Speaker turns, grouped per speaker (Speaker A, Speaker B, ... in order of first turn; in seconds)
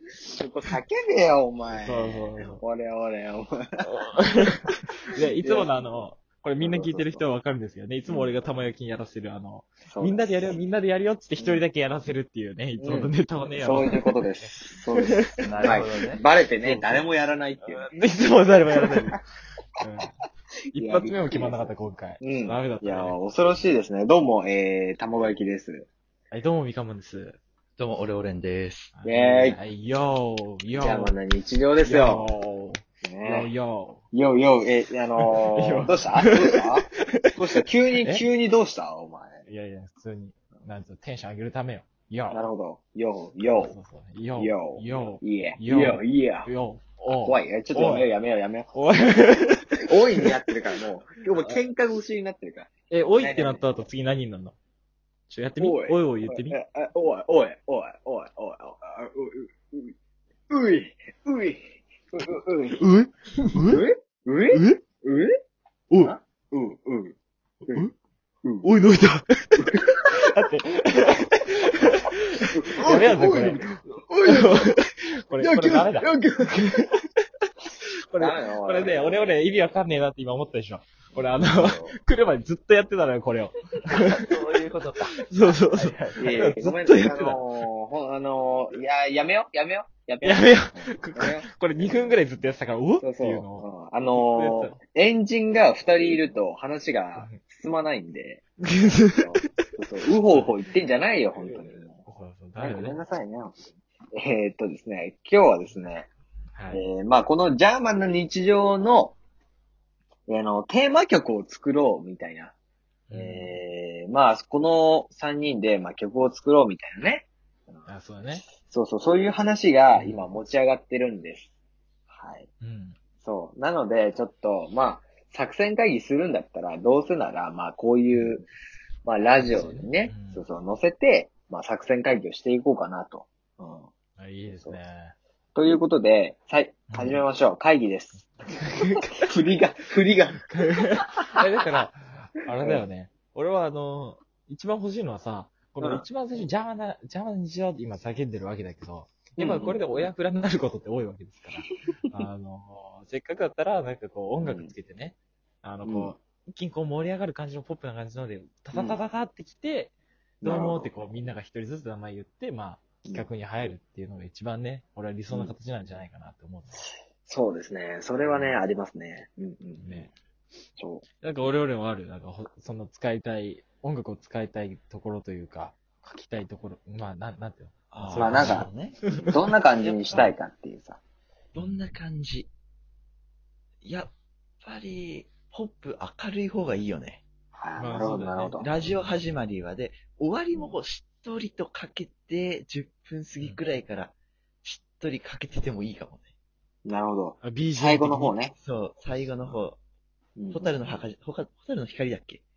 Speaker A: 0.3-3.9, 5.4-5.7, 6.6-7.2, 8.1-8.4, 9.9-10.6, 11.4-11.7, 12.8-17.9, 20.8-21.6, 22.2-25.9, 29.1-29.6, 30.8-32.3, 33.0-33.5, 34.1-39.4, 42.3-43.7, 44.4-46.5, 47.1-48.7, 49.8-53.7, 55.6-59.9, 60.5-62.8, 63.7-65.3, 66.0-67.2, 68.4-68.7, 72.5-74.6, 75.4-76.6, 78.2-79.4, 81.2-81.9, 86.2-92.2, 93.0-98.4, 99.0-102.0, 102.6-106.1, 106.7-109.2, 110.3-112.5, 113.1-121.5, 122.1-122.5, 123.2-128.4, 129.0-133.9, 134.5-134.8, 135.5-138.2, 139.1-140.5, 145.8-146.1, 149.4-149.8, 154.4-154.7, 155.8-156.1, 158.7-159.0, 160.4-160.9, 165.3-165.5, 167.2-170.1, 170.8-171.0, 178.1-178.7, 179.3-181.0, 187.5-188.7, 196.8-198.5, 200.3-200.7
Speaker B: 1.7-2.6, 3.9-15.9, 16.6-17.1, 17.6-19.2, 19.8-20.1, 20.7-23.2, 26.3-27.4, 28.9-31.1, 31.8-34.0, 35.2-37.4, 39.5-42.4, 43.6-48.1, 48.7-50.3, 52.9-54.5, 55.3-56.5, 62.8-63.8, 64.5-64.8, 68.6-76.9, 78.1-84.4, 85.2-87.4, 90.2-94.8, 98.7-99.5, 100.2-103.0, 106.5-106.8, 113.1-113.5, 117.9-118.5, 119.9-120.3, 122.6-123.0, 128.1-128.4, 129.4-130.4, 134.2-135.1, 136.9-137.2, 138.2-139.2, 140.4-166.8, 168.2-168.6, 169.8-170.1, 171.2-179.4, 181.6-181.8, 187.8-189.2, 197.4-198.4
Speaker C: 15.4-16.2, 27.8-28.9, 84.1-86.3, 177.9-179.3, 181.5-182.5, 183.8-187.2, 188.0-194.1, 194.6-196.3, 198.6-199.8, 200.5-202.4